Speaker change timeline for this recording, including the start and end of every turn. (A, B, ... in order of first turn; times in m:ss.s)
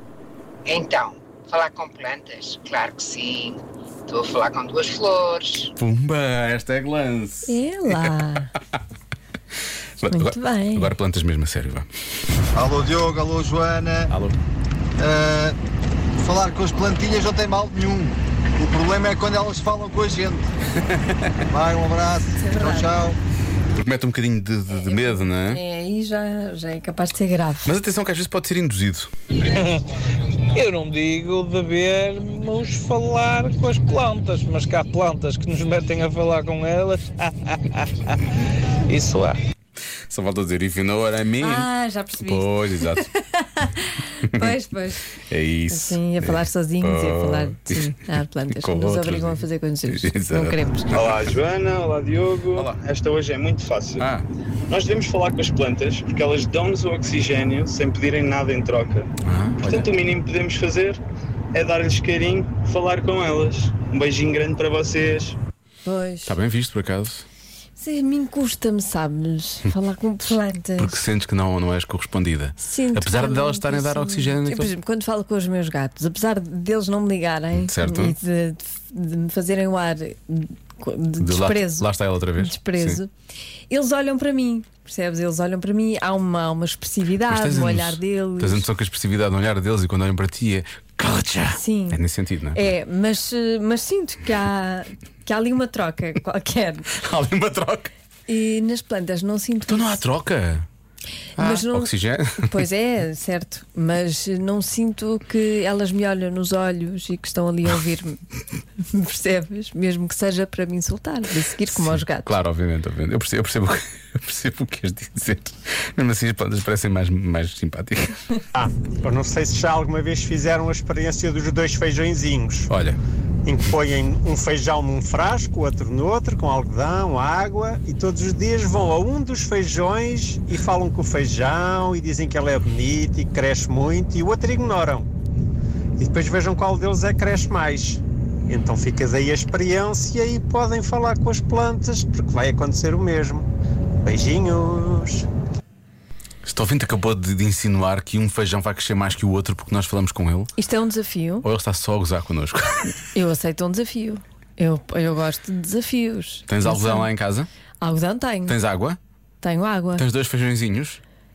0:00.6-0:05.7 A
0:05.8-0:08.1 B
0:07.4-0:08.5 C
0:10.0-0:11.9 B
0:10.1-0:10.9 C
0:12.5-0:14.1 D
0:14.1-0:14.4 B
0:15.0-0:15.6 D
0:16.2-0:20.5 D
0:20.8-0:21.2 B
0:21.5-0:23.2 D
0:22.4-0:22.9 C
0:23.7-0:25.6 B
0:24.9-0:27.7 C
0:27.6-0:29.1 B
0:29.4-0:29.8 E
0:30.5-0:38.1 E
0:38.8-0:39.4 E
0:40.1-0:43.1 B
0:41.4-0:45.1 C
0:45.3-0:51.0 B
0:45.7-0:50.9 C
0:50.9-0:54.0 F
0:54.0-0:54.2 B
0:54.7-0:59.1 F
0:59.2-0:59.9 B
0:59.6-1:01.0 F
1:01.5-1:05.4 F
1:05.8-1:06.3 C
1:06.2-1:07.2 B
1:07.8-1:10.9 C
1:10.8-1:14.7 B
1:12.6-1:21.9 C
1:17.5-1:18.2 B
1:21.2-1:23.0 B
1:22.4-1:23.1 C
1:23.7-1:28.6 C
1:27.3-1:32.6 B
1:31.6-1:32.0 C
1:32.5-1:36.9 C
1:36.9-1:37.9 B
1:38.3-1:40.0 C
1:39.7-1:40.7 B
1:41.4-1:42.6 B
1:41.4-1:48.2 C
1:48.8-1:52.3 C
1:51.7-1:58.2 B
1:58.5-2:02.7 G
2:02.7-2:03.0 B
2:03.4-2:15.1 G
2:16.0-2:23.5 G
2:24.0-2:25.2 G
2:26.4-2:30.5 B
2:30.6-2:31.4 C
2:31.4-2:32.9 B
2:33.1-2:37.1 C
2:36.5-2:37.5 B
2:37.8-2:38.6 C
2:38.5-2:39.0 B
2:39.4-2:40.0 C
2:40.0-2:41.0 B